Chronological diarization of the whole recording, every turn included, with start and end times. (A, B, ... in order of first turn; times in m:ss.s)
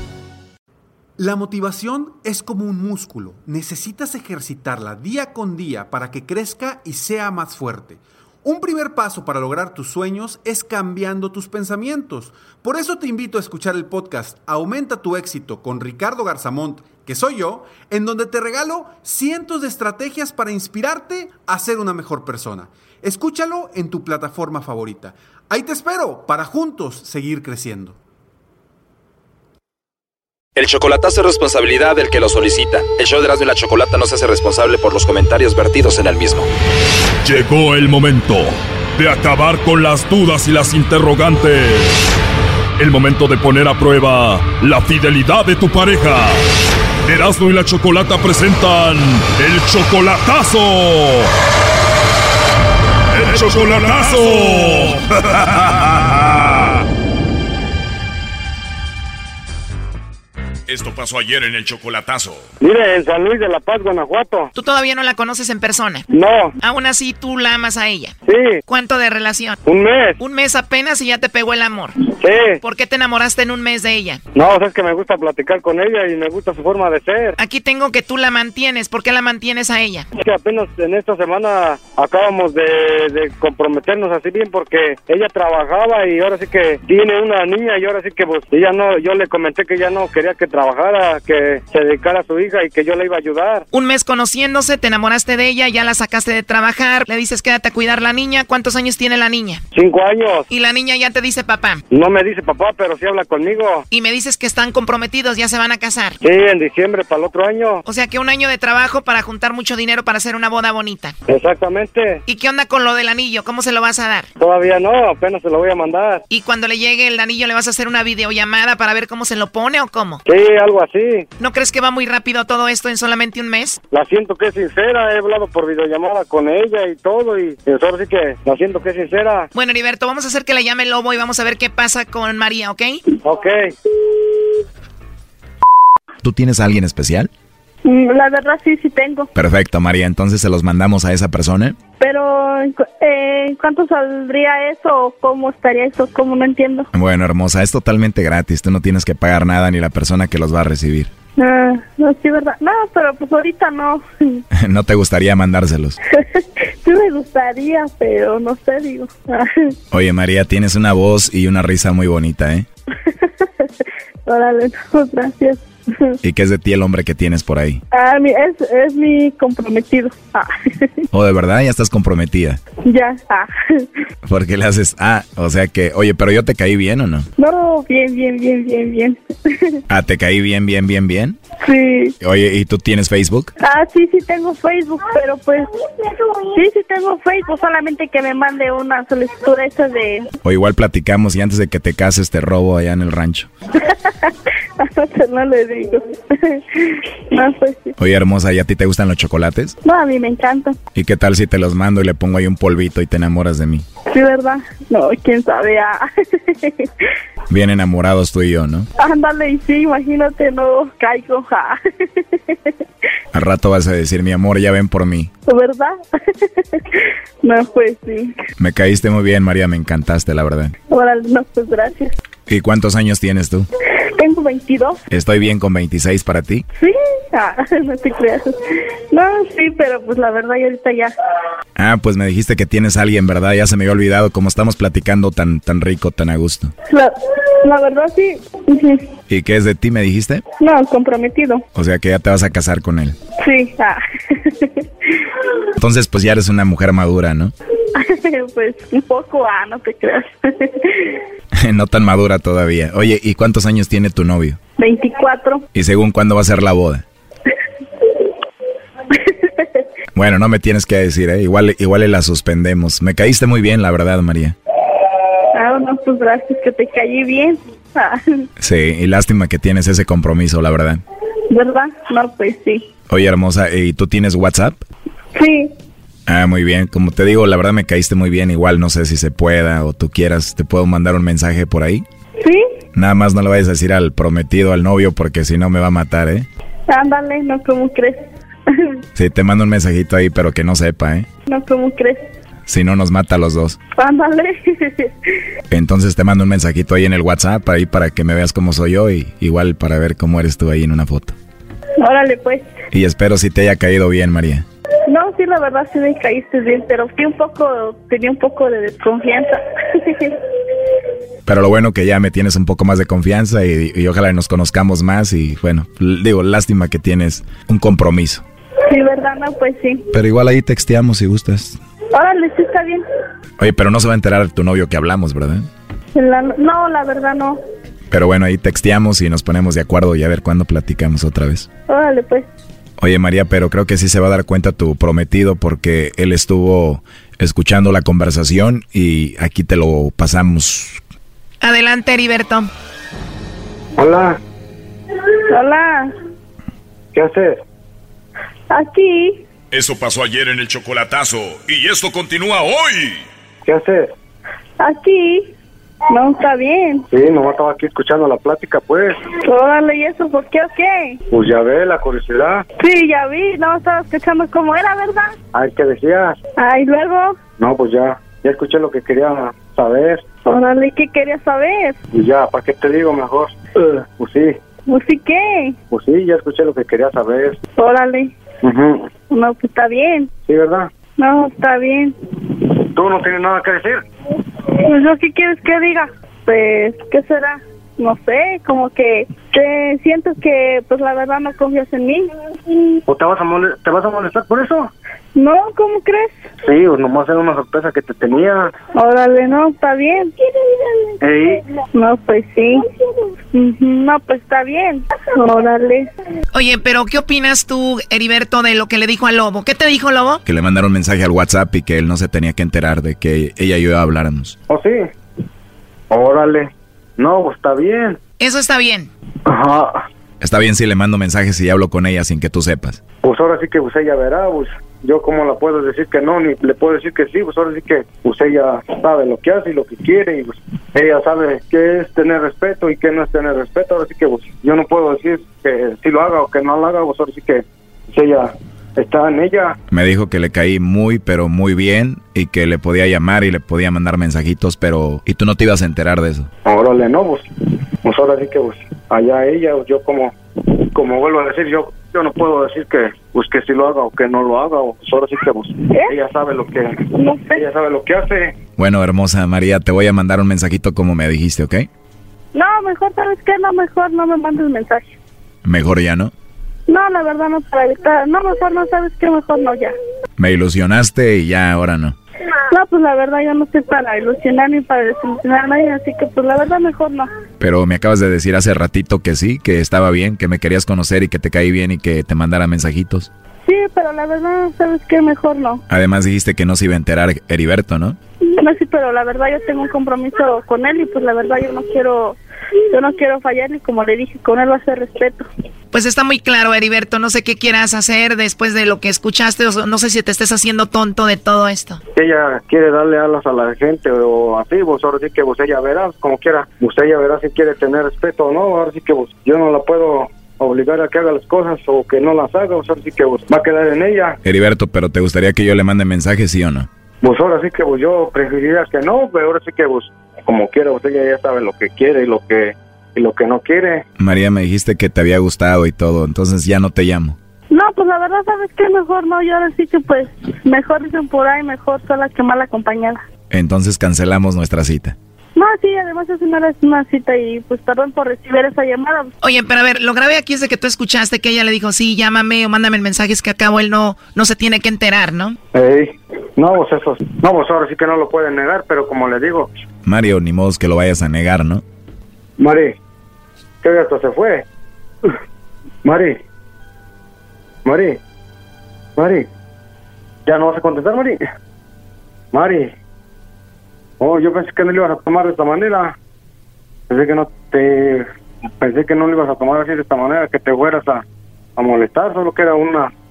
0:01.2-0:28.0 A
0:30.6-0:36.5 B
0:37.2-0:42.2 C
0:42.8-0:46.5 C
0:47.0-0:51.3 C
0:53.1-0:56.6 C
1:01.4-1:02.2 C
1:02.6-1:04.5 D
1:04.6-1:06.1 E
1:06.1-1:06.6 D
1:06.6-1:08.1 E
1:08.3-1:08.6 D
1:08.7-1:09.6 E
1:09.6-1:10.2 D
1:10.2-1:12.0 E
1:12.1-1:12.6 D
1:12.6-1:14.2 E
1:14.4-1:17.4 D
1:17.4-1:20.1 E
1:20.1-1:33.6 D
1:33.7-1:39.6 E
1:39.7-1:40.5 D
1:40.5-1:41.8 E
1:41.9-1:43.8 D
1:43.9-1:46.2 E
1:46.2-1:47.8 D
1:47.8-1:51.2 E
1:51.3-1:52.2 D
1:52.3-1:54.3 E
1:54.4-1:56.2 D
1:56.3-2:00.2 E
2:00.3-2:01.3 D
2:01.4-2:03.8 E
2:03.9-2:09.5 D
2:09.5-2:13.0 E
2:13.2-2:13.6 D
2:16.2-2:17.3 F
2:17.8-2:19.3 G
2:19.4-2:21.8 F
2:22.0-2:26.9 G
2:26.9-2:31.1 F
2:31.4-2:34.4 G
2:34.6-2:36.0 F
2:36.1-2:39.8 G
2:39.9-2:42.7 F
2:43.0-2:43.7 G
2:44.3-2:46.2 G
2:46.2-2:47.8 F
2:47.9-2:51.0 G
2:51.1-2:52.6 F
2:52.8-2:53.9 G
2:54.2-2:57.3 F
2:57.4-2:59.8 G
2:59.9-3:01.4 F
3:01.6-3:02.2 G
3:02.2-3:03.5 F
3:03.6-3:10.3 G
3:10.4-3:13.5 F
3:13.8-3:17.9 G
3:18.0-3:19.8 F
3:19.8-3:20.8 G
3:20.9-3:23.8 F
3:24.1-3:26.9 G
3:27.5-3:28.9 F
3:29.0-3:32.8 G
3:33.3-3:35.3 F
3:35.5-3:38.4 G
3:38.6-3:40.7 F
3:40.9-3:42.2 G
3:42.5-3:43.7 F
3:44.2-3:45.0 G
3:45.1-3:46.6 F
3:46.8-3:51.1 G
3:51.8-3:56.7 F
3:56.9-3:59.1 G
3:59.3-4:00.4 F
4:00.6-4:01.6 G
4:01.7-4:03.2 F
4:03.4-4:05.5 G
4:05.8-4:07.5 F
4:07.9-4:11.2 G
4:11.6-4:14.6 F
4:14.8-4:15.6 G
4:15.7-4:17.0 F
4:19.2-4:19.8 G
4:20.2-4:24.6 F
4:25.5-4:28.5 G
4:28.6-4:31.0 F
4:31.5-4:32.8 G
4:33.1-4:34.8 F
4:35.4-4:35.7 G
4:36.3-4:42.0 F
4:42.9-4:46.5 F
4:46.9-4:49.0 G
4:49.2-4:51.3 F
4:51.5-4:52.3 G
4:52.7-4:53.8 F
4:54.0-4:55.3 G
4:55.7-5:01.4 F
5:02.0-5:02.7 G
5:02.9-5:04.6 F
5:05.1-5:10.4 G
5:11.5-5:18.4 F
5:18.9-5:20.0 G
5:20.1-5:21.8 F
5:22.1-5:23.1 G
5:23.6-5:25.7 F
5:26.1-5:27.6 G
5:28.1-5:31.7 F
5:31.9-5:32.5 G
5:33.0-5:41.0 F
5:41.6-5:42.7 E
5:44.0-5:44.4 D
5:45.5-5:46.1 G
5:47.1-5:47.6 D
5:48.7-5:49.4 G
5:49.8-5:53.2 C
5:53.6-5:54.1 D
5:54.8-5:55.5 G
5:56.1-5:57.1 G
5:57.1-5:59.2 D
5:59.4-6:01.2 G
6:01.3-6:02.6 D
6:02.8-6:05.3 G
6:05.5-6:06.4 D
6:06.6-6:07.4 G
6:07.6-6:10.4 D
6:10.4-6:12.0 G
6:12.1-6:14.6 D
6:14.9-6:15.8 G
6:15.9-6:17.6 D
6:17.8-6:18.3 G
6:18.6-6:19.1 D
6:19.2-6:20.3 G
6:20.5-6:20.9 D
6:21.2-6:22.2 G
6:22.9-6:24.0 D
6:24.7-6:32.8 G
6:33.1-6:34.9 D
6:35.4-6:36.3 G
6:36.6-6:38.7 D
6:38.9-6:41.0 G
6:41.2-6:41.6 D
6:41.9-6:42.9 G
6:43.5-6:46.1 G
6:46.5-6:50.4 E
6:50.4-6:54.6 F
6:54.7-6:55.1 D
6:56.1-6:58.2 D
6:58.4-6:59.1 E
6:59.5-7:00.0 D
7:00.4-7:03.0 F
7:03.2-7:19.8 D
7:19.9-7:26.5 F
7:26.6-7:37.0 D
7:37.2-7:37.6 G
7:37.6-7:38.6 D
7:38.8-7:41.9 F
7:42.5-7:45.1 G
7:45.6-7:46.3 F
7:46.9-7:49.9 G
7:50.4-7:52.2 F
7:52.7-7:57.3 G
7:57.6-8:03.3 F
8:03.7-8:05.8 G
8:05.9-8:08.2 F
8:08.6-8:12.4 G
8:12.9-8:15.5 G
8:15.9-8:22.0 E
8:22.2-8:34.4 D
8:34.4-8:36.9 F
8:37.2-8:44.0 D
8:44.2-8:47.4 F
8:47.7-8:53.2 G
8:53.5-8:55.2 F
8:55.6-8:59.3 G
8:59.4-9:05.6 E
9:05.7-9:09.7 D
9:10.1-9:11.8 F
9:12.6-9:13.0 D
9:13.8-9:14.6 D
9:16.0-9:16.4 D
9:17.8-9:18.2 D
9:19.2-9:19.5 D
9:20.5-9:21.4 D
9:22.5-9:22.9 D
9:24.2-9:26.2 D
9:27.1-9:31.2 D
9:31.8-9:33.1 D